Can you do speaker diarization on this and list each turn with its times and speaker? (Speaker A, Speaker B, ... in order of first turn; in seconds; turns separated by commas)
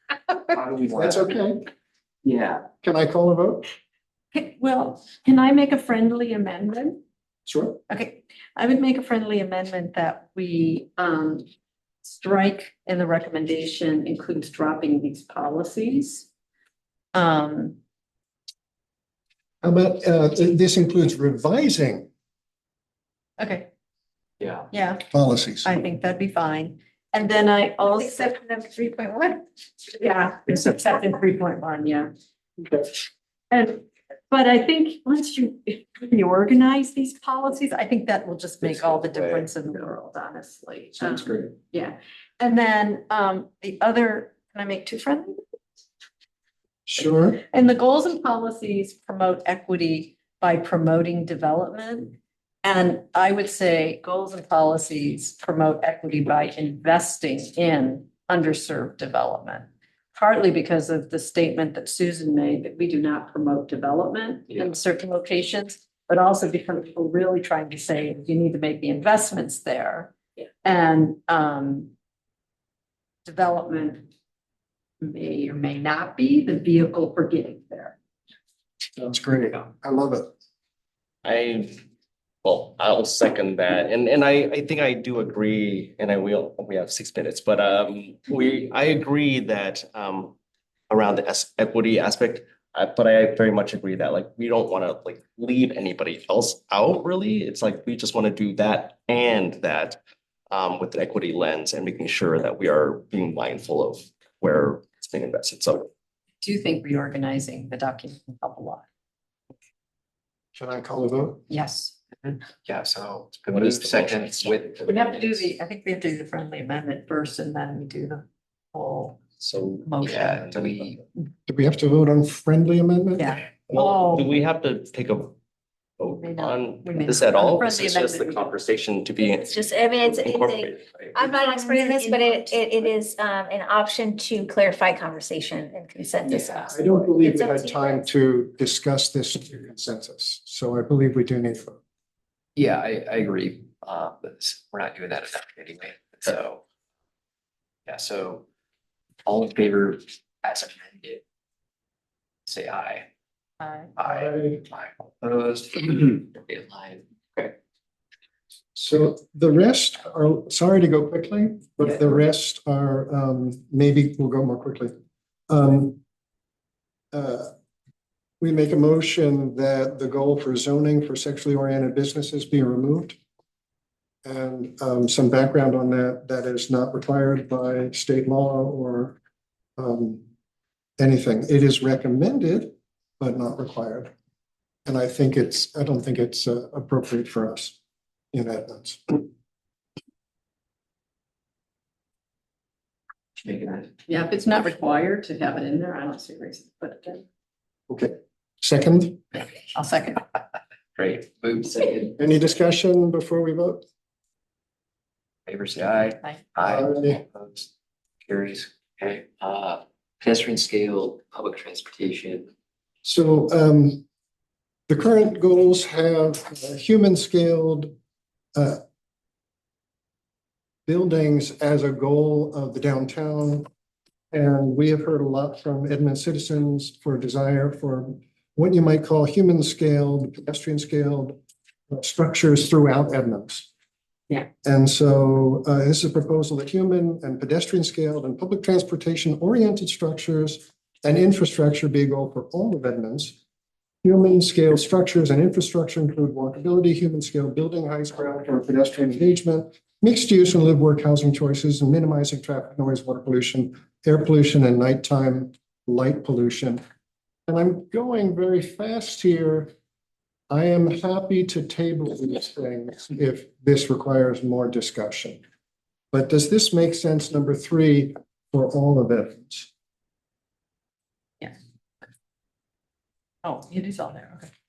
Speaker A: 0.5-1.2, Speaker B: 0.9-1.6, Speaker A: 2.2-2.7, Speaker B: 2.8-3.7, Speaker C: 4.3-7.0, Speaker B: 7.5-7.8, Speaker C: 7.9-11.4, Speaker C: 12.1-16.3, Speaker C: 17.1-17.8, Speaker B: 19.6-22.1, Speaker C: 23.4-23.7, Speaker A: 24.4-24.7, Speaker C: 24.7-25.1, Speaker B: 25.1-25.7, Speaker C: 25.6-28.4, Speaker D: 27.8-29.4, Speaker C: 29.9-32.1, Speaker C: 33.5-45.4, Speaker A: 38.8-39.4, Speaker A: 41.0-41.3, Speaker B: 46.9-47.4, Speaker C: 47.5-70.1, Speaker C: 70.6-71.9, Speaker C: 73.3-74.1, Speaker C: 75.0-78.0, Speaker B: 79.0-80.3, Speaker E: 81.2-81.8, Speaker E: 82.4-90.4, Speaker E: 90.9-100.0, Speaker E: 100.5-105.9, Speaker C: 106.4-108.8, Speaker B: 110.5-111.4, Speaker C: 111.5-112.0, Speaker A: 112.2-115.5, Speaker E: 113.5-114.5, Speaker C: 114.9-120.6, Speaker A: 119.5-121.0, Speaker B: 121.5-123.4, Speaker C: 123.2-124.3, Speaker E: 123.7-125.4, Speaker E: 126.0-131.3, Speaker C: 126.2-128.5, Speaker D: 129.2-138.0, Speaker C: 131.6-132.5, Speaker A: 136.3-136.7, Speaker B: 136.6-141.8, Speaker A: 142.6-146.6, Speaker A: 147.9-148.4, Speaker A: 149.2-151.2, Speaker A: 152.5-153.1, Speaker C: 153.6-153.9, Speaker A: 154.0-157.6, Speaker B: 154.1-154.6, Speaker B: 158.8-164.9, Speaker B: 165.5-166.0, Speaker B: 167.1-167.5, Speaker B: 168.4-173.2, Speaker B: 174.2-179.2, Speaker B: 179.8-180.2, Speaker B: 181.0-184.1, Speaker B: 184.9-187.8, Speaker B: 188.3-189.3, Speaker A: 193.4-193.9, Speaker C: 194.1-197.2, Speaker B: 197.9-199.2, Speaker C: 199.7-200.2, Speaker A: 200.9-202.3, Speaker B: 202.2-203.8, Speaker A: 205.5-207.7, Speaker B: 206.6-207.2, Speaker A: 208.2-212.5, Speaker B: 213.0-214.0, Speaker B: 214.9-217.9, Speaker B: 218.6-218.8, Speaker B: 220.9-223.7, Speaker B: 224.3-231.4, Speaker B: 231.9-233.7, Speaker B: 234.6-243.4, Speaker B: 244.0-256.8, Speaker B: 257.5-259.7, Speaker B: 260.5-265.4, Speaker B: 266.1-269.7, Speaker C: 273.4-274.5